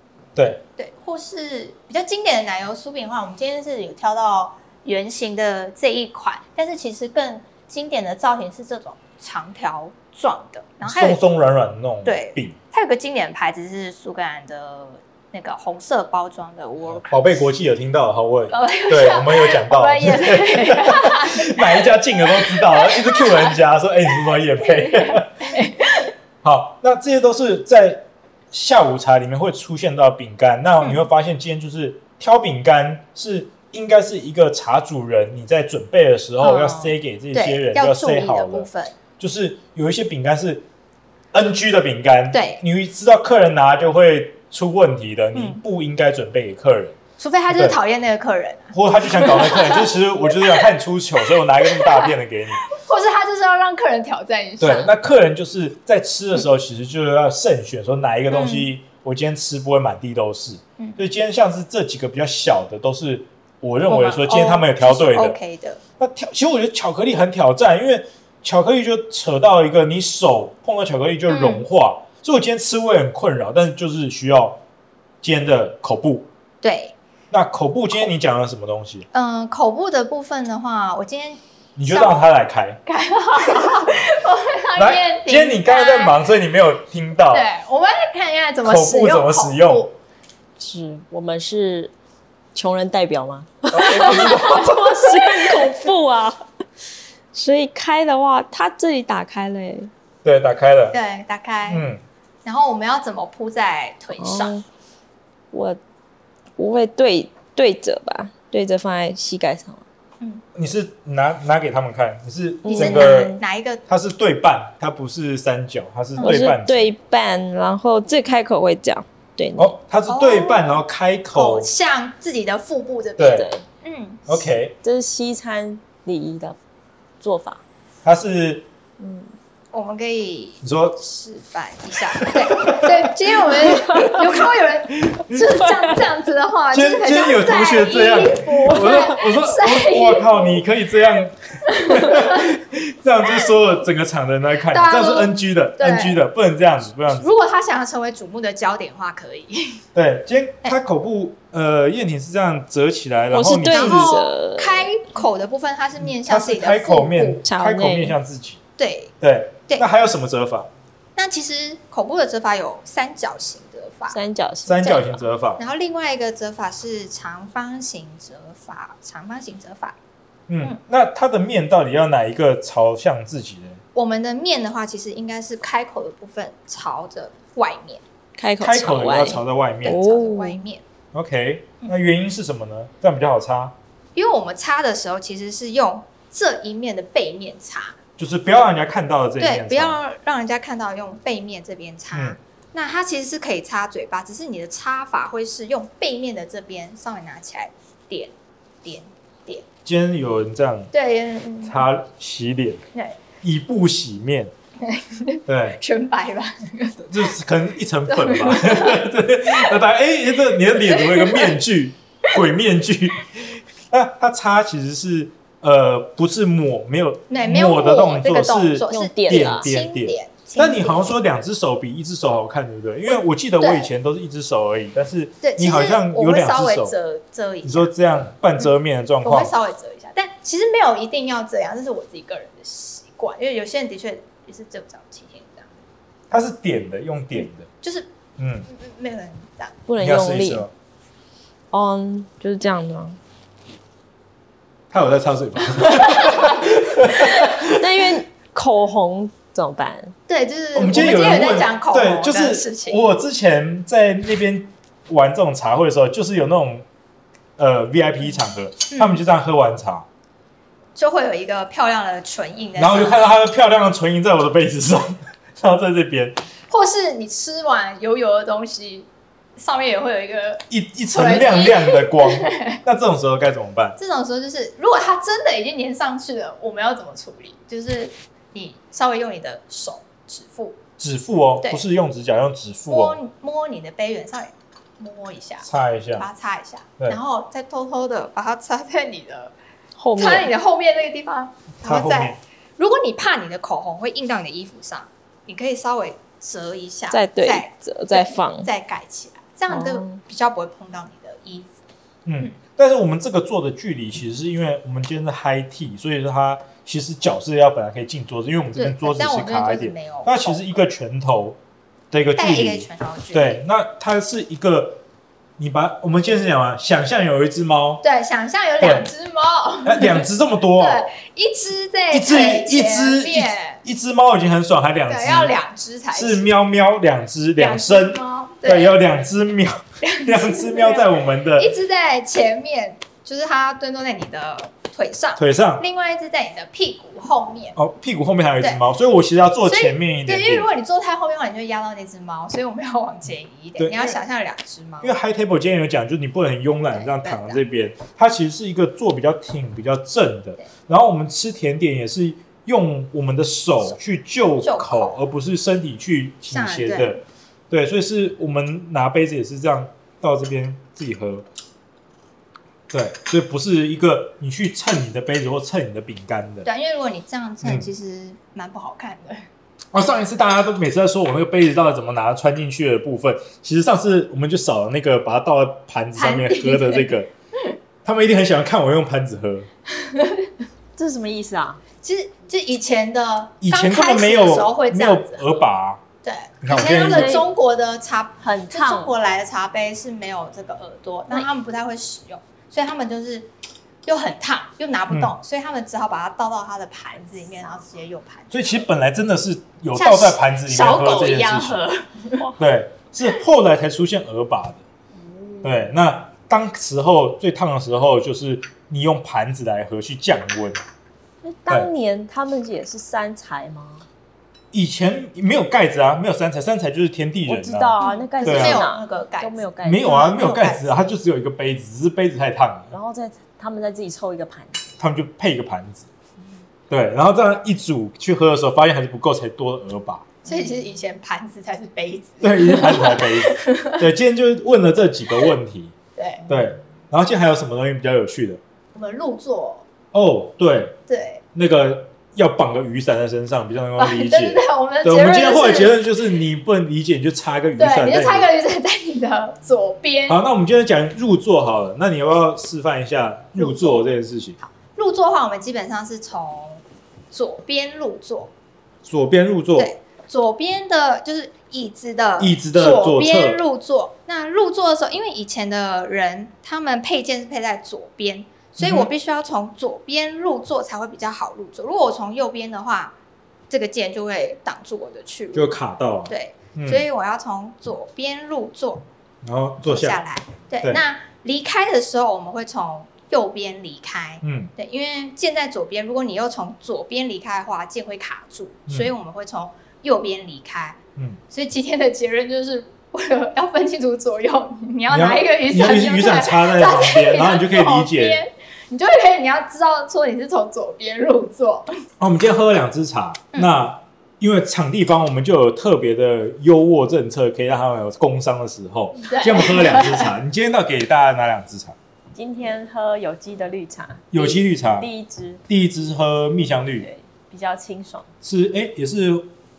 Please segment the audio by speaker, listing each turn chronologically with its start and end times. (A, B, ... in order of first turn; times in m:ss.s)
0:00.4-0:00.6 A
0:00.7-0:11.2 B
0:10.8-0:12.6 A
0:12.0-0:17.4 B
0:16.8-0:25.4 A
0:18.5-0:26.1 B
0:26.4-0:40.6 A
0:30.8-0:31.1 B
0:36.4-0:39.0 B
0:41.3-0:47.8 A
0:42.3-0:42.6 B
0:45.3-0:45.6 B
0:47.2-0:54.9 B
0:48.7-0:52.6 A
0:54.6-1:14.6 A
0:58.3-0:58.7 B
1:03.9-1:05.8 B
1:11.3-1:11.6 B
1:15.2-1:16.3 A
1:16.6-1:17.0 B
1:17.3-1:19.0 A
1:19.1-1:22.3 B
1:21.8-1:22.8 A
1:22.9-1:26.2 B
1:24.7-1:27.5 A
1:27.3-1:29.9 B
1:28.6-1:29.9 A
1:30.6-1:31.9 C
1:32.5-1:36.4 C
1:33.7-1:34.8 A
1:34.0-1:35.8 B
1:37.3-1:39.9 C
1:40.2-1:41.0 A
1:40.9-1:41.9 B
1:41.7-1:42.0 A
1:42.4-1:44.6 B
1:44.2-1:44.6 C
1:45.5-1:45.8 C
1:46.6-1:49.8 C
1:50.5-1:53.3 A
1:52.6-1:53.4 C
1:52.6-1:53.8 B
1:53.9-1:56.9 A
1:56.2-1:59.7 C
1:59.6-2:01.7 A
2:00.0-2:04.5 B
2:03.2-2:03.5 A
2:03.3-2:03.6 C
2:04.2-2:04.8 A
2:04.8-2:06.6 C
2:07.2-2:07.6 C
2:08.0-2:08.6 A
2:09.0-2:09.3 C
2:09.7-2:20.7 B
2:10.6-2:11.0 A
2:12.1-2:14.4 A
2:15.0-2:15.5 A
2:16.7-2:27.3 A
2:21.7-2:22.5 B
2:24.7-2:26.2 B
2:27.0-2:29.8 B
2:29.9-2:34.2 A
2:33.3-2:34.9 C
2:33.6-2:37.4 B
2:36.0-2:38.6 A
2:37.4-2:38.2 C
2:38.8-2:39.1 B
2:39.2-2:40.7 A
2:41.2-2:44.2 B
2:44.1-2:45.2 C
2:44.6-2:45.6 A
2:44.7-2:50.0 B
2:50.5-2:53.8 A
2:53.9-2:58.0 B
2:58.4-3:00.6 C
2:58.6-3:00.1 A
3:00.0-3:00.8 B
3:01.1-3:03.7 A
3:04.1-3:08.0 B
3:08.2-3:10.0 A
3:09.4-3:19.7 B
3:12.1-3:12.4 A
3:19.8-3:20.9 A
3:20.9-3:21.8 B
3:21.6-3:24.5 A
3:22.9-3:23.3 B
3:24.8-3:27.3 B
3:25.5-3:25.8 A
3:27.0-3:46.9 A
3:28.1-3:29.8 B
3:30.6-3:31.6 B
3:37.3-3:41.1 B
3:38.9-3:39.7 C
3:43.1-3:43.9 B
3:45.4-3:47.9 B
3:47.6-3:49.6 A
3:49.2-3:55.8 B
3:56.3-3:57.7 A
3:57.8-3:58.1 B
3:58.4-3:58.7 A
3:58.7-3:59.8 B
3:59.8-4:00.6 C
4:00.0-4:00.7 A
4:01.7-4:03.2 C
4:04.9-4:08.1 A
4:07.7-4:10.1 C
4:10.3-4:13.0 B
4:10.7-4:16.8 A
4:17.6-4:20.1 A
4:18.9-4:19.2 B
4:20.9-4:23.2 B
4:22.8-4:26.4 A
4:26.7-4:32.8 B
4:30.7-4:34.0 A
4:34.0-4:40.8 B
4:41.0-4:43.2 A
4:42.9-4:49.5 B
4:45.6-4:46.3 A
4:50.0-4:50.5 C
4:50.2-5:01.7 B
4:51.8-4:52.4 A
4:57.1-4:58.7 C
4:59.7-5:00.2 C
5:02.2-5:11.6 A
5:08.7-5:10.7 B
5:12.1-5:15.0 A
5:12.3-5:13.6 B
5:15.6-5:18.0 A
5:18.0-5:23.8 B
5:18.8-5:19.1 A
5:19.8-5:21.1 A
5:22.1-5:25.6 A
5:25.1-5:26.5 B
5:26.1-5:31.7 A
5:27.6-5:28.9 B
5:30.0-5:37.8 B
5:35.4-5:35.8 A
5:37.8-5:40.7 A
5:39.6-5:45.1 B
5:43.8-5:44.2 A
5:45.0-6:01.4 A
5:46.9-5:47.6 B
5:54.6-5:55.2 B
5:56.5-5:57.2 B
6:02.9-6:06.7 A
6:06.6-6:09.4 B
6:07.6-6:07.9 A
6:09.9-6:17.3 A
6:16.1-6:17.2 B
6:18.0-6:19.7 A
6:20.0-6:20.5 B
6:20.9-6:21.8 C
6:22.0-6:25.5 B
6:23.6-6:26.0 A
6:26.2-6:33.5 B
6:26.6-6:27.4 A
6:27.1-6:27.4 C
6:28.4-6:29.1 C
6:34.0-6:38.8 B
6:35.1-6:35.4 A
6:38.5-6:41.8 A
6:39.9-6:42.5 B
6:42.6-6:44.8 A
6:45.2-6:45.8 C
6:45.6-6:50.8 A
6:51.4-6:54.0 C
6:54.7-6:58.9 A
6:57.4-7:00.0 C
6:58.0-7:01.1 B
6:59.8-7:02.9 A
7:02.9-7:04.8 C
7:05.0-7:06.1 A
7:06.9-7:10.4 A
7:10.4-7:14.0 B
7:12.4-7:15.9 A
7:16.2-7:16.5 B
7:16.5-7:18.6 A
7:18.9-7:19.8 B
7:20.1-7:21.0 A
7:21.1-7:21.4 B
7:21.5-7:28.5 A
7:24.0-7:26.1 B
7:27.8-7:30.4 B
7:30.3-7:34.6 A
7:33.5-7:34.1 B
7:34.6-7:38.5 B
7:39.0-7:39.9 A
7:39.8-7:53.1 B
7:42.4-7:43.6 A
7:48.8-7:49.1 A
7:53.7-7:55.7 B
7:55.5-7:57.0 A
7:56.3-7:59.0 B
7:59.4-8:00.2 A
7:59.8-8:11.0 B
8:04.4-8:04.7 A
8:11.5-8:21.9 B
8:15.1-8:18.4 A
8:22.2-8:32.0 A
8:29.3-8:30.4 B
8:32.3-8:35.6 C
8:34.3-8:35.1 A
8:35.7-8:37.1 A
8:37.0-8:38.2 C
8:38.4-8:39.5 A